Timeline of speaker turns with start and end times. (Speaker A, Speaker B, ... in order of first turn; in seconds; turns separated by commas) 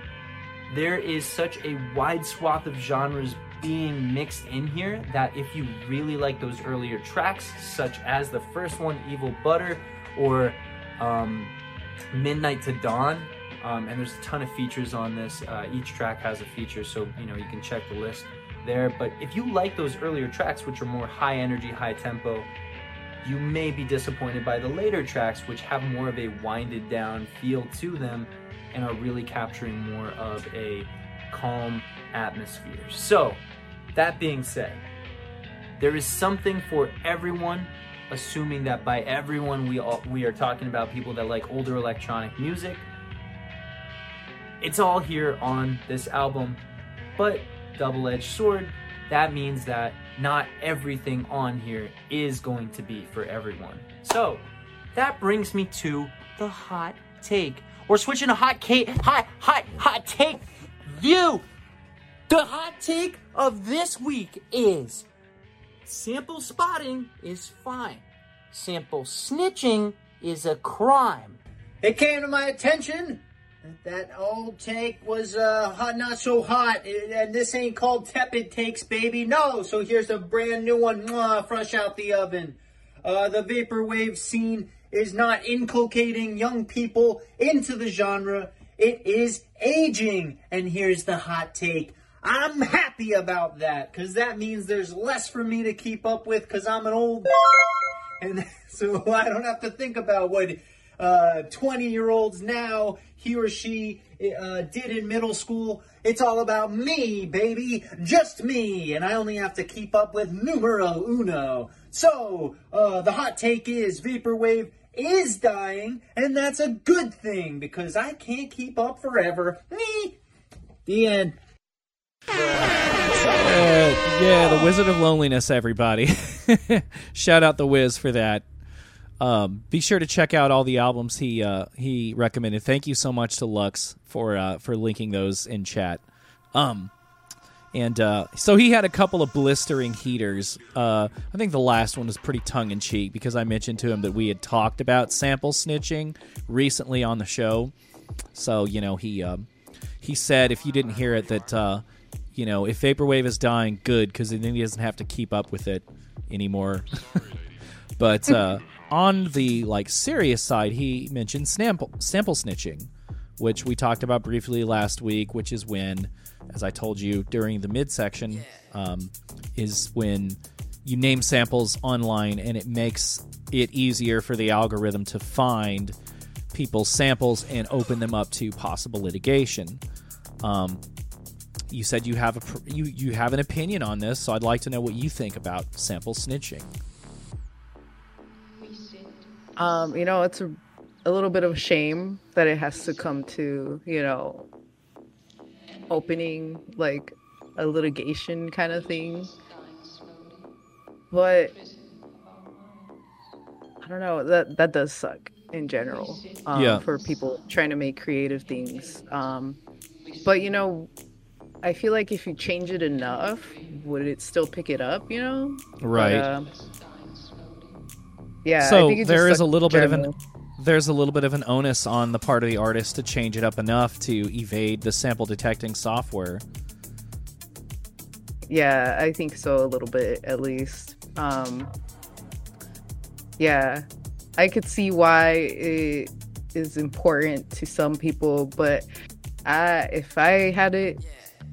Speaker A: 0.7-11.5, Speaker A: 12.1-22.5, Speaker A: 23.2-33.4, Speaker A: 33.9-34.8, Speaker A: 35.8-42.9, Speaker A: 44.6-46.6, Speaker A: 47.2-61.5, Speaker A: 62.3-65.1, Speaker A: 65.8-71.4, Speaker B: 71.8-97.6, Speaker B: 98.2-120.2, Speaker B: 120.8-121.3, Speaker B: 122.3-123.4, Speaker C: 123.3-128.4, Speaker C: 129.2-136.0, Speaker C: 136.5-136.9, Speaker C: 137.7-147.7, Speaker C: 148.3-149.5, Speaker C: 150.0-157.2, Speaker C: 158.0-175.9, Speaker C: 176.5-179.8, Speaker C: 180.4-180.8, Speaker C: 181.7-186.7, Speaker D: 189.6-194.5, Speaker D: 195.9-199.4, Speaker D: 201.1-201.6, Speaker D: 203.8-210.9, Speaker C: 206.5-206.8, Speaker D: 211.6-216.6, Speaker C: 215.8-216.3, Speaker D: 218.4-220.1, Speaker C: 218.6-226.4, Speaker D: 228.5-231.7, Speaker D: 233.4-233.8, Speaker D: 234.4-238.9, Speaker D: 239.4-241.1